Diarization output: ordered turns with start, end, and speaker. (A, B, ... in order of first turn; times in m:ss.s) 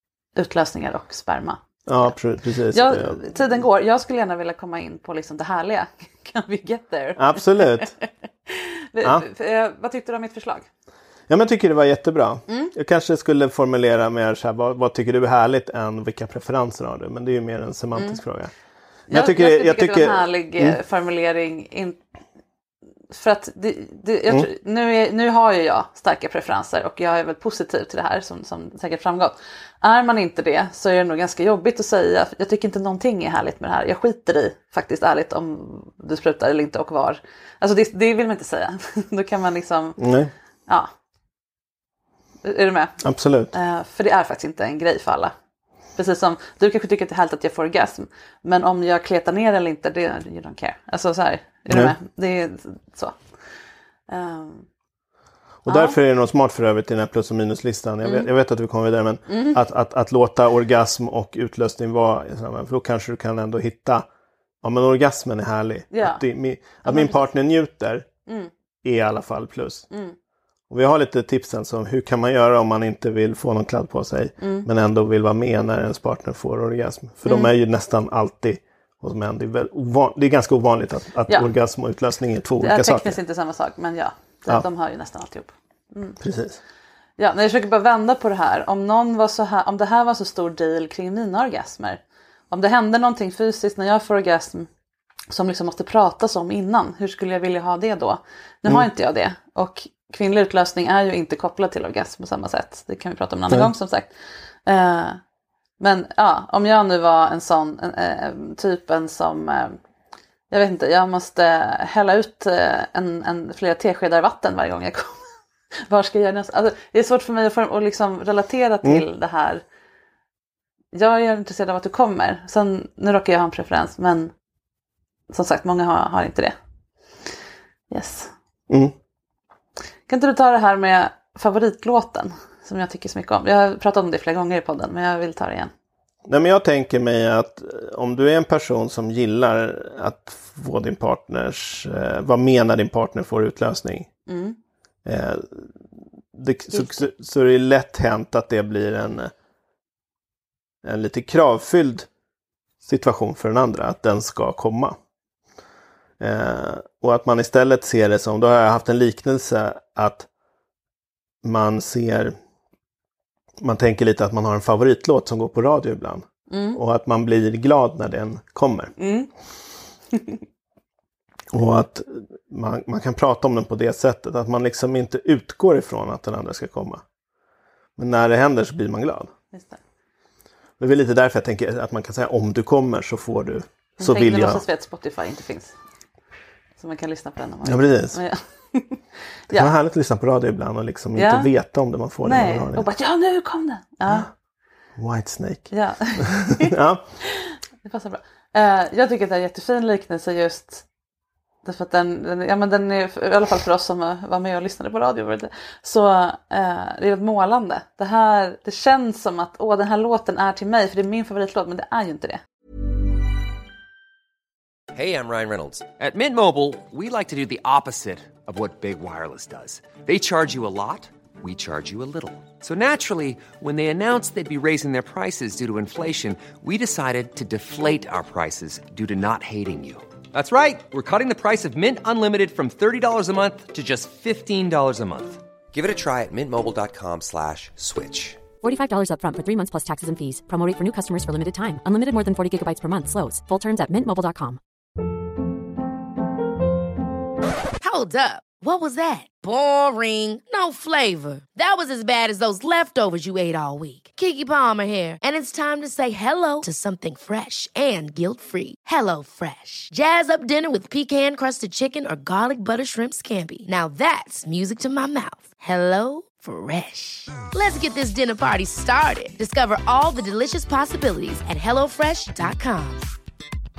0:00.4-0:02.1 A
0:01.9-0:03.4 B
0:02.7-0:07.9 A
0:07.2-0:07.9 B
0:08.5-0:10.7 A
0:11.3-0:18.5 B
0:19.1-0:20.8 B
0:19.1-0:22.0 A
0:23.1-0:40.0 A
0:40.0-0:40.3 B
0:42.4-0:43.0 A
0:43.0-0:43.5 B
0:43.5-0:45.3 A
0:46.0-0:53.2 A
0:54.1-0:54.7 A
0:55.6-1:04.0 B
0:55.7-0:56.0 A
0:59.3-0:59.6 A
1:04.6-1:08.1 B
1:05.9-1:06.2 A
1:06.8-1:07.3 A
1:08.8-1:09.9 B
1:09.9-1:10.2 A
1:10.7-1:23.2 B
1:14.4-1:14.6 A
1:17.2-1:17.5 A
1:22.6-1:26.2 A
1:26.2-1:26.6 B
1:27.2-1:34.7 A
1:35.3-1:44.1 A
1:44.6-1:45.2 A
1:45.8-1:49.8 A
1:50.5-1:55.3 A
1:55.8-1:59.6 A
2:00.9-2:04.3 A
2:05.3-2:06.6 A
2:07.9-2:08.3 A
2:08.7-2:08.9 B
2:10.1-2:15.7 A
2:16.3-2:24.1 B
2:24.3-2:24.6 A
2:25.0-2:25.7 B
2:26.3-2:29.3 B
2:26.7-2:27.1 A
2:30.8-2:32.1 B
2:32.8-2:35.0 B
2:36.2-2:40.3 B
2:41.4-2:42.3 B
2:43.6-2:48.9 B
2:46.5-2:46.8 A
2:49.0-2:49.3 A
2:51.5-2:57.0 B
2:58.0-2:59.3 B
2:59.5-2:59.8 A
3:00.8-3:04.6 B
3:04.0-3:05.7 A
3:06.8-3:09.7 A
3:07.6-3:08.2 B
3:09.5-3:12.9 B
3:11.2-3:11.5 A
3:12.2-3:14.3 A
3:15.0-3:17.0 B
3:15.7-3:16.7 A
3:17.3-3:20.8 A
3:21.6-3:32.4 A
3:34.9-3:58.4 C
3:58.6-4:04.6 D
4:07.8-4:33.0 E